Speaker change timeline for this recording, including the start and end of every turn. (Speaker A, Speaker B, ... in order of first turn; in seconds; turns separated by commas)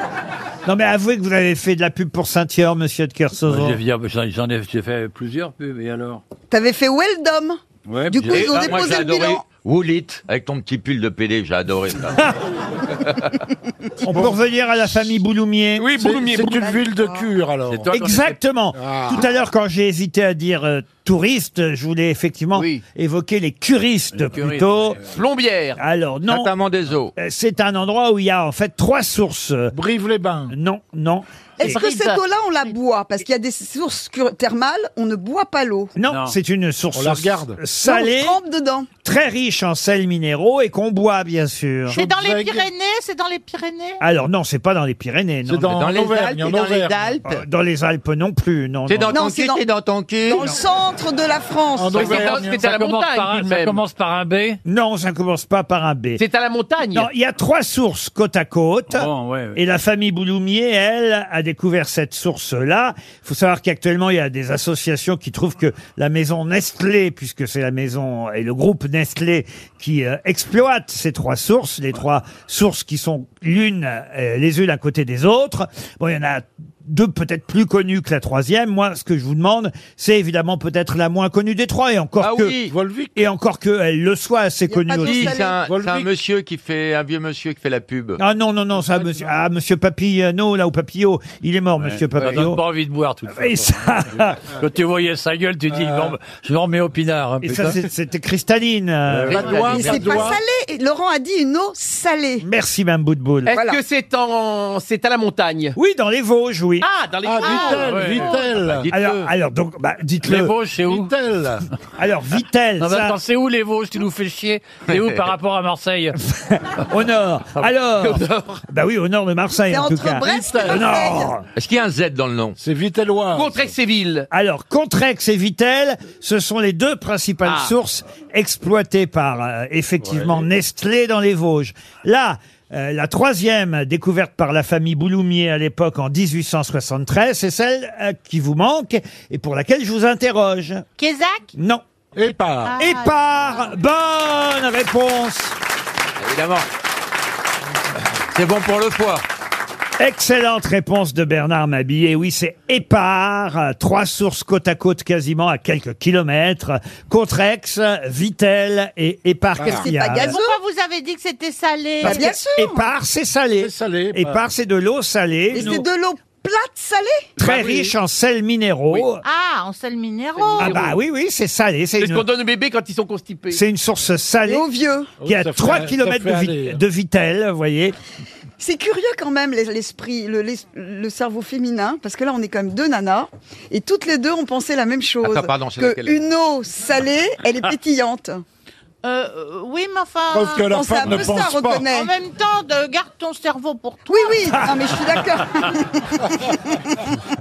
Speaker A: 0.7-3.8, Speaker B: 3.5-6.2, Speaker C: 6.5-9.4, Speaker B: 7.9-8.7, Speaker D: 8.3-12.3, Speaker A: 14.0-15.9, Speaker E: 15.8-16.6, Speaker F: 16.0-17.9, Speaker C: 16.4-17.3, Speaker B: 17.7-18.4, Speaker A: 17.9-25.0, Speaker F: 18.8-19.2, Speaker E: 22.5-22.8, Speaker B: 24.1-25.0, Speaker E: 25.1-25.8, Speaker A: 25.8-26.5, Speaker D: 26.3-27.1, Speaker A: 27.2-29.7, Speaker F: 29.7-30.5, Speaker A: 30.5-31.8, Speaker C: 31.6-35.9, Speaker E: 31.6-32.2, Speaker A: 36.0-38.4, Speaker B: 36.1-36.4, Speaker F: 36.9-37.6, Speaker C: 37.9-38.9, Speaker A: 39.0-42.0, Speaker F: 41.9-42.7, Speaker G: 41.9-44.0, Speaker A: 44.0-45.8, Speaker F: 45.5-47.2, Speaker D: 45.7-47.4, Speaker A: 47.2-49.1, Speaker D: 48.9-50.5, Speaker C: 49.1-49.7, Speaker C: 50.3-52.2, Speaker F: 51.8-52.6, Speaker E: 51.9-53.8, Speaker B: 52.1-54.6, Speaker A: 54.7-56.2, Speaker E: 56.2-57.1, Speaker A: 56.9-82.5, Speaker B: 58.9-59.6, Speaker D: 82.2-82.8, Speaker F: 82.7-83.2, Speaker A: 83.2-85.3, Speaker C: 84.7-85.5, Speaker D: 85.0-88.2, Speaker F: 85.6-86.1, Speaker A: 88.2-92.6, Speaker B: 91.8-97.8, Speaker A: 93.4-94.4, Speaker F: 95.7-96.1, Speaker A: 97.4-99.6, Speaker B: 99.1-100.1, Speaker F: 99.2-100.4, Speaker C: 99.5-102.4, Speaker A: 102.4-103.5, Speaker E: 103.5-105.8, Speaker C: 103.5-103.8, Speaker A: 105.8-106.9, Speaker E: 106.8-108.1, Speaker F: 107.2-108.9, Speaker G: 107.4-108.4, Speaker B: 107.9-108.3, Speaker D: 108.7-109.3, Speaker A: 108.9-110.5, Speaker B: 110.2-111.1, Speaker F: 110.8-111.7, Speaker A: 112.0-113.2, Speaker B: 112.8-116.2, Speaker D: 114.9-115.2, Speaker A: 116.3-121.5, Speaker E: 118.0-118.6, Speaker C: 119.7-121.3, Speaker F: 120.4-120.9, Speaker D: 121.5-122.6, Speaker F: 122.6-123.7, Speaker E: 123.3-124.3, Speaker A: 124.3-140.9, Speaker E: 127.4-127.7, Speaker G: 141.0-141.5, Speaker A: 141.6-141.8, Speaker F: 142.2-142.8, Speaker G: 142.6-143.2, Speaker A: 142.8-145.6, Speaker D: 146.2-146.7, Speaker D: 148.3-149.2, Speaker A: 150.0-160.4, Speaker F: 159.6-159.9, Speaker C: 159.6-160.6, Speaker G: 160.3-162.3, Speaker C: 162.0-162.8, Speaker A: 162.0-165.8, Speaker F: 163.6-164.4, Speaker C: 165.5-167.3, Speaker A: 167.4-169.2, Speaker F: 167.4-167.8, Speaker G: 169.2-170.8, Speaker E: 170.4-170.9, Speaker A: 170.6-172.2, Speaker E: 172.0-173.6, Speaker A: 173.5-174.6, Speaker C: 174.5-175.1, Speaker F: 175.2-176.8, Speaker A: 175.2-177.9, Speaker C: 178.6-188.4, Speaker D: 185.2-186.2, Speaker G: 189.0-191.3, Speaker F: 190.3-191.9, Speaker C: 190.6-192.1, Speaker G: 191.9-194.6, Speaker C: 194.1-197.0